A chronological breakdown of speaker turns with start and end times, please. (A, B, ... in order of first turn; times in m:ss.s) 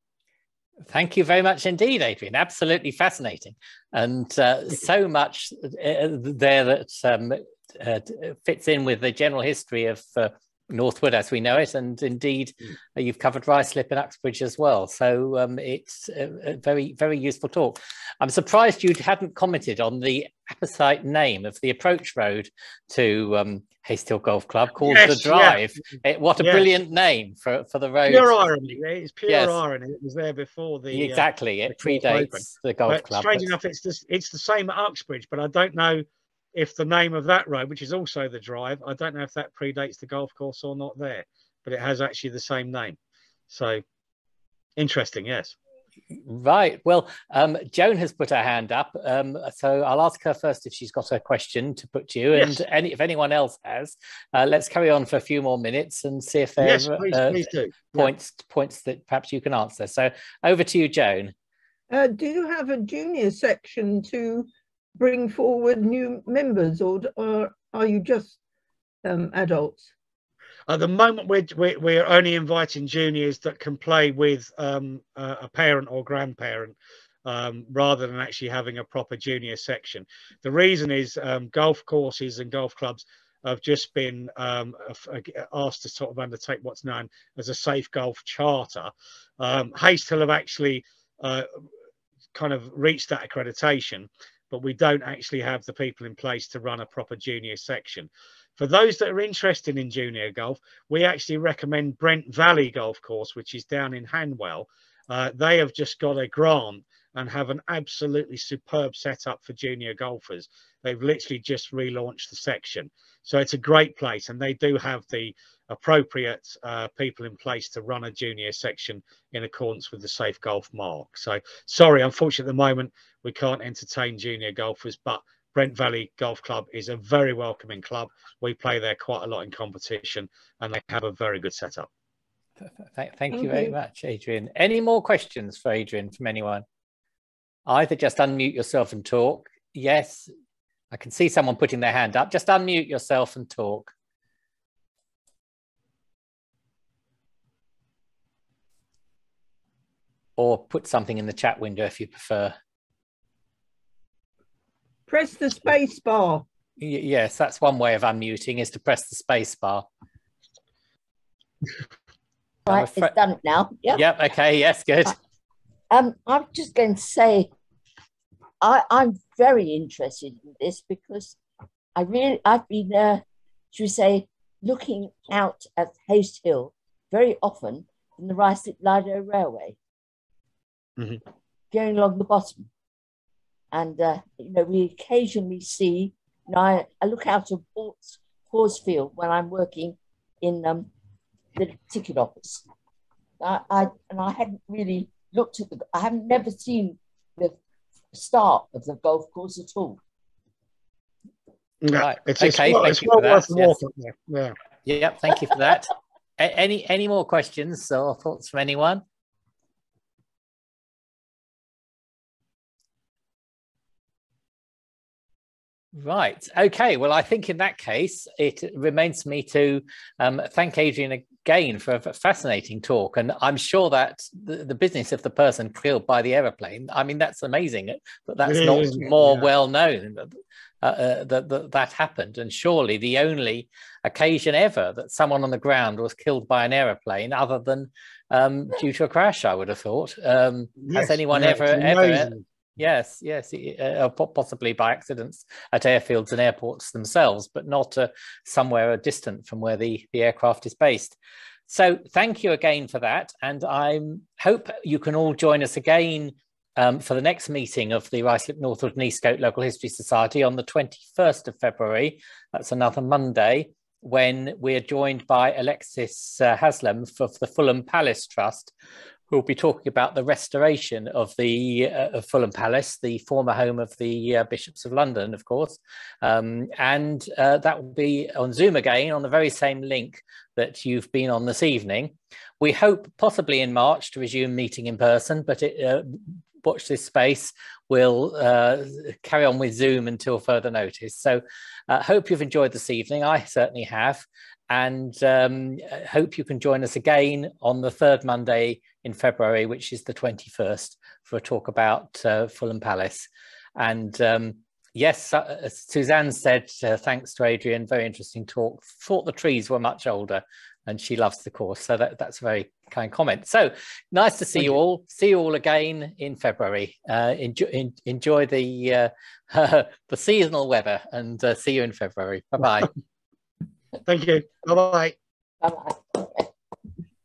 0:00.9-0:28.3 A
0:24.8-0:25.6 B
0:26.4-0:26.6 B
0:28.1-0:43.0 B
0:29.3-0:29.6 A
0:30.9-0:33.5 A
0:43.5-0:43.8 B
0:44.8-0:45.5 B
0:46.1-0:57.4 A
0:52.3-0:52.6 B
0:56.6-0:58.1 B
0:57.9-1:01.3 A
1:01.9-1:08.4 C
1:09.0-1:09.9 C
1:10.7-1:31.6 B
1:32.3-2:11.9 B
2:12.6-2:16.6 A
2:13.3-2:13.7 C
2:17.6-2:20.3 A
2:20.9-2:23.9 A
2:30.4-2:32.5 A
2:35.1-2:36.4 C
2:36.8-2:39.9 A
2:42.6-2:44.0 D
2:42.7-2:43.1 A
2:43.9-2:45.2 A
2:45.9-2:47.5 D
2:48.6-2:51.4 D
2:51.9-2:59.8 D
3:01.7-3:02.7 D
3:03.7-3:10.9 D
3:11.5-3:12.6 D
3:13.4-3:17.6 D
3:18.1-3:20.0 D
3:21.8-3:24.6 B
3:22.0-3:23.8 A
3:24.8-3:29.0 A
3:35.9-4:11.2 A
3:48.4-3:49.5 B
4:00.8-4:02.4 B
4:11.7-4:28.7 A
4:29.3-5:22.9 A
5:24.0-5:25.2 B
5:25.6-5:26.5 D